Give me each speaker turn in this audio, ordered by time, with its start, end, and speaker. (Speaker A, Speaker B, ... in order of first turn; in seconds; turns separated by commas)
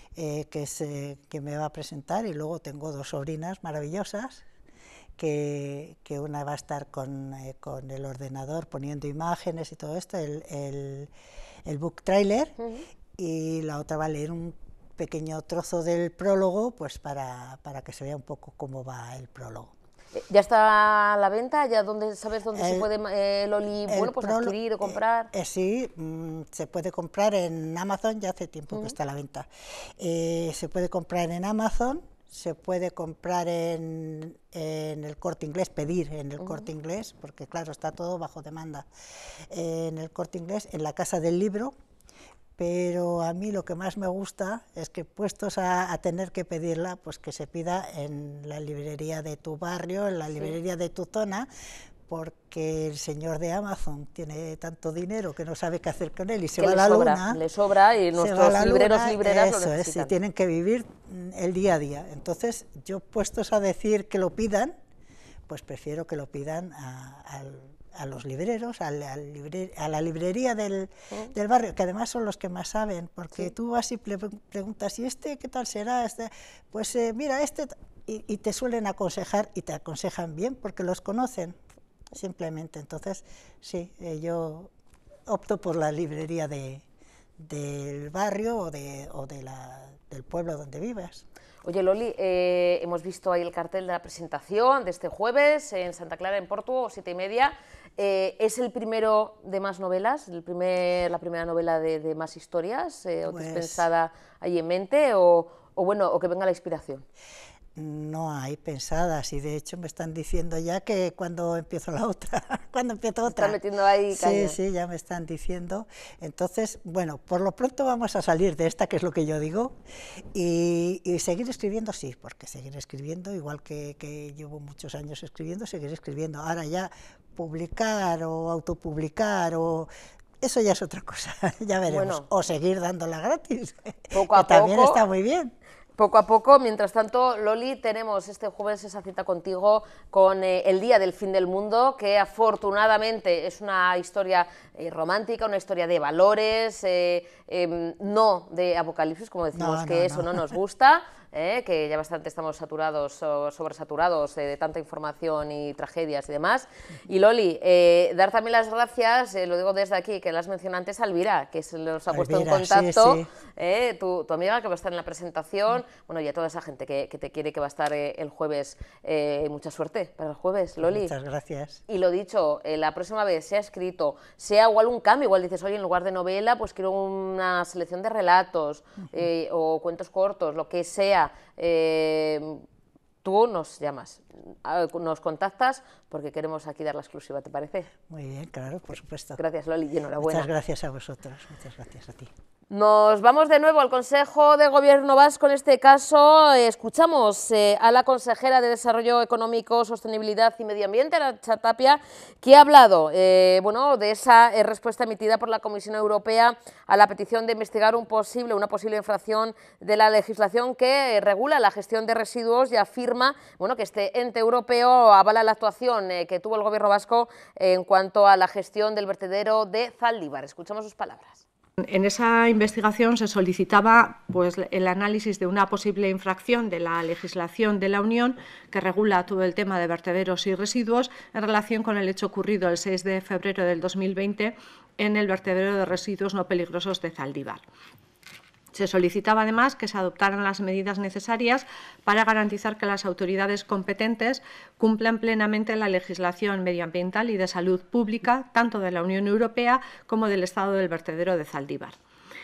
Speaker A: 0.1-4.4, Speaker A: 5.2-11.1, Speaker A: 11.7-12.5, Speaker B: 12.6-12.8, Speaker A: 13.2-19.7, Speaker B: 20.1-25.3, Speaker A: 22.5-22.9, Speaker A: 23.9-29.5, Speaker A: 30.0-38.9, Speaker B: 36.4-36.7, Speaker A: 39.5-41.7, Speaker A: 42.6-51.5, Speaker A: 52.1-57.4, Speaker B: 56.6-60.1, Speaker A: 58.1-64.7, Speaker A: 65.5-81.6, Speaker A: 82.1-84.7, Speaker A: 85.3-86.8, Speaker A: 87.4-91.2, Speaker B: 91.6-107.0, Speaker A: 103.3-103.8, Speaker A: 107.8-113.6, Speaker B: 113.3-114.5, Speaker A: 114.1-119.7, Speaker A: 120.3-129.9, Speaker A: 130.4-135.5, Speaker B: 131.9-132.3, Speaker B: 134.1-135.0, Speaker B: 136.0-171.1, Speaker A: 149.6-150.4, Speaker A: 162.1-163.3, Speaker A: 170.8-171.8, Speaker B: 171.9-182.6, Speaker B: 183.2-187.9, Speaker A: 188.1-189.4, Speaker B: 189.4-190.5, Speaker A: 190.2-192.3, Speaker B: 192.7-221.4, Speaker C: 221.9-237.6, Speaker C: 238.7-251.9